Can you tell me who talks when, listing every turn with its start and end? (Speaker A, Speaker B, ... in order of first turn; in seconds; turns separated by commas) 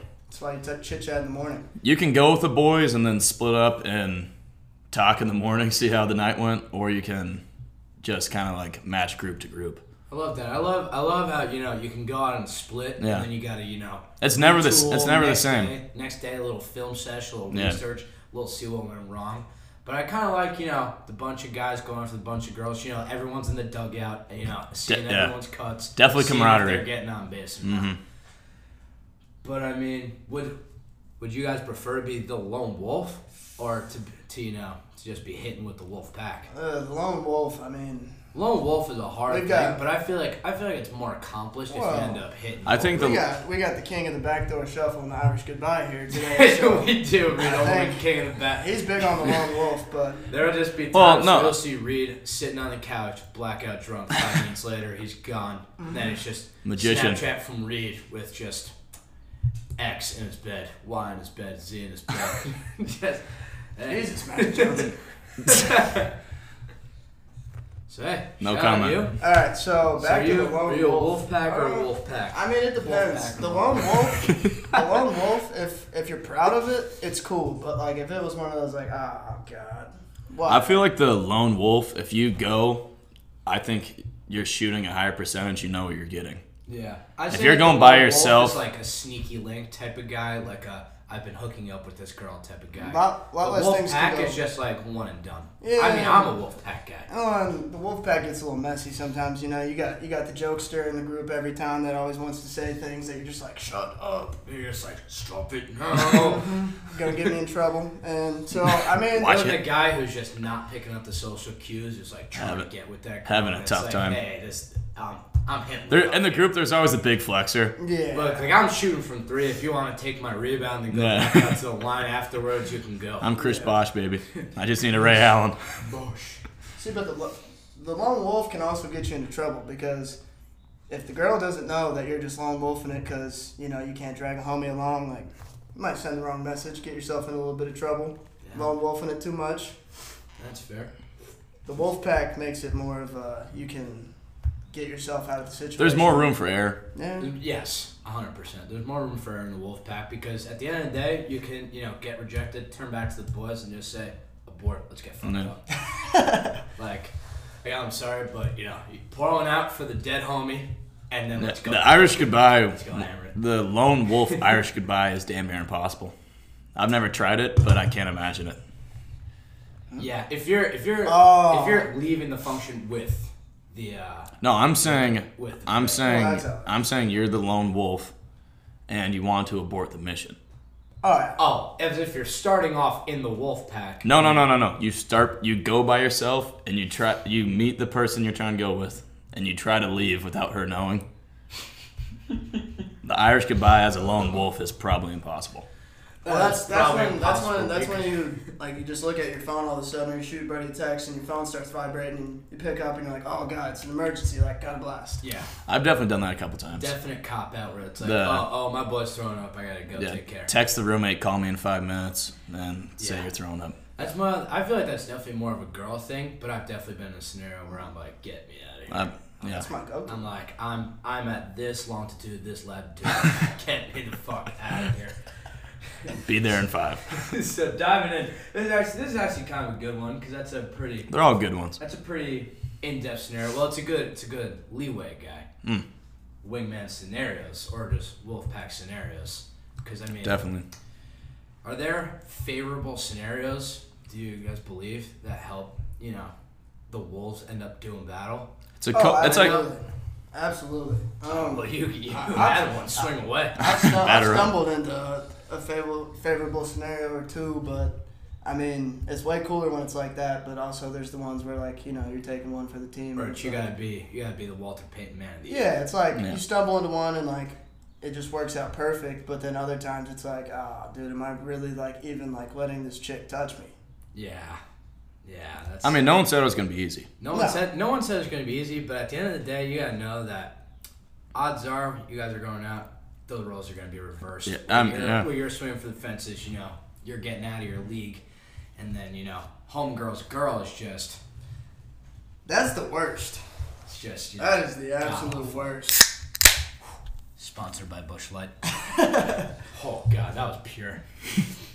Speaker A: 0.3-1.7, Speaker B: 1.8-4.3, Speaker B: 4.9-7.4, Speaker B: 8.0-9.8, Speaker C: 10.1-27.9, Speaker B: 13.0-13.3, Speaker B: 14.2-15.7, Speaker B: 17.5-17.8, Speaker B: 24.9-25.3, Speaker B: 25.9-26.9, Speaker B: 27.6-28.0, Speaker C: 29.4-30.6, Speaker C: 31.2-36.5, Speaker A: 36.5-38.1, Speaker C: 38.3-43.1, Speaker A: 39.3-39.8, Speaker A: 41.7-42.2, Speaker B: 42.6-43.2, Speaker A: 42.9-50.2, Speaker C: 46.1-49.4, Speaker C: 50.3-58.7, Speaker B: 50.9-51.6, Speaker B: 56.6-57.2, Speaker C: 59.8-64.9, Speaker A: 63.9-65.0, Speaker C: 65.4-66.1, Speaker C: 67.9-69.1, Speaker B: 68.4-69.1, Speaker A: 69.2-80.8, Speaker C: 70.0-74.8, Speaker B: 80.5-82.8, Speaker B: 83.5-86.4, Speaker C: 86.7-97.1, Speaker B: 87.3-88.6, Speaker A: 92.8-94.4, Speaker A: 95.6-96.4, Speaker A: 97.1-104.4, Speaker C: 104.4-106.7, Speaker A: 105.9-109.6, Speaker B: 109.1-109.6, Speaker C: 109.2-116.5, Speaker B: 112.3-112.7, Speaker B: 113.2-114.2, Speaker B: 115.9-117.7, Speaker A: 117.8-118.5, Speaker C: 118.1-123.3, Speaker B: 120.9-121.6, Speaker B: 123.2-125.7, Speaker A: 123.3-123.8, Speaker C: 125.8-126.4, Speaker A: 126.8-130.2, Speaker A: 130.9-139.8, Speaker C: 138.4-138.7, Speaker C: 140.4-140.9, Speaker A: 141.7-144.1, Speaker A: 144.7-146.3, Speaker B: 145.8-146.8, Speaker A: 146.9-147.3, Speaker C: 147.2-155.7, Speaker B: 155.2-155.5, Speaker A: 156.0-156.6, Speaker C: 156.8-163.3, Speaker B: 161.4-166.1, Speaker B: 166.7-168.6, Speaker C: 170.0-176.1, Speaker A: 171.0-171.9, Speaker B: 174.4-178.1, Speaker A: 176.0-176.8, Speaker B: 178.9-180.3, Speaker A: 181.0-181.4, Speaker C: 181.4-184.4, Speaker B: 184.0-191.0, Speaker B: 193.0-195.6, Speaker C: 196.2-198.3, Speaker A: 196.2-205.2, Speaker C: 205.2-205.5, Speaker B: 205.7-206.9, Speaker C: 206.7-210.5, Speaker B: 208.0-208.5, Speaker B: 209.9-213.8, Speaker C: 213.0-213.3, Speaker C: 213.9-219.1, Speaker B: 218.9-219.6, Speaker A: 219.4-220.2, Speaker C: 220.1-225.2, Speaker B: 226.1-227.1, Speaker C: 227.1-231.2, Speaker B: 231.1-231.8, Speaker C: 231.8-235.5, Speaker C: 236.4-240.4, Speaker B: 240.2-240.7, Speaker C: 241.6-246.3, Speaker C: 246.9-248.5, Speaker B: 248.8-249.6, Speaker A: 248.9-263.7, Speaker C: 249.2-249.7, Speaker C: 251.3-253.6, Speaker B: 253.6-254.5, Speaker C: 263.1-265.7, Speaker A: 265.4-273.7, Speaker C: 274.1-274.6, Speaker C: 275.2-276.2, Speaker B: 275.8-277.1, Speaker C: 277.2-280.6, Speaker A: 277.3-277.6, Speaker C: 281.3-288.2, Speaker B: 284.4-285.3, Speaker C: 288.8-291.2, Speaker A: 292.4-293.4, Speaker C: 293.9-295.7, Speaker A: 294.4-296.1, Speaker C: 297.4-298.5, Speaker A: 298.9-299.4, Speaker C: 299.7-301.0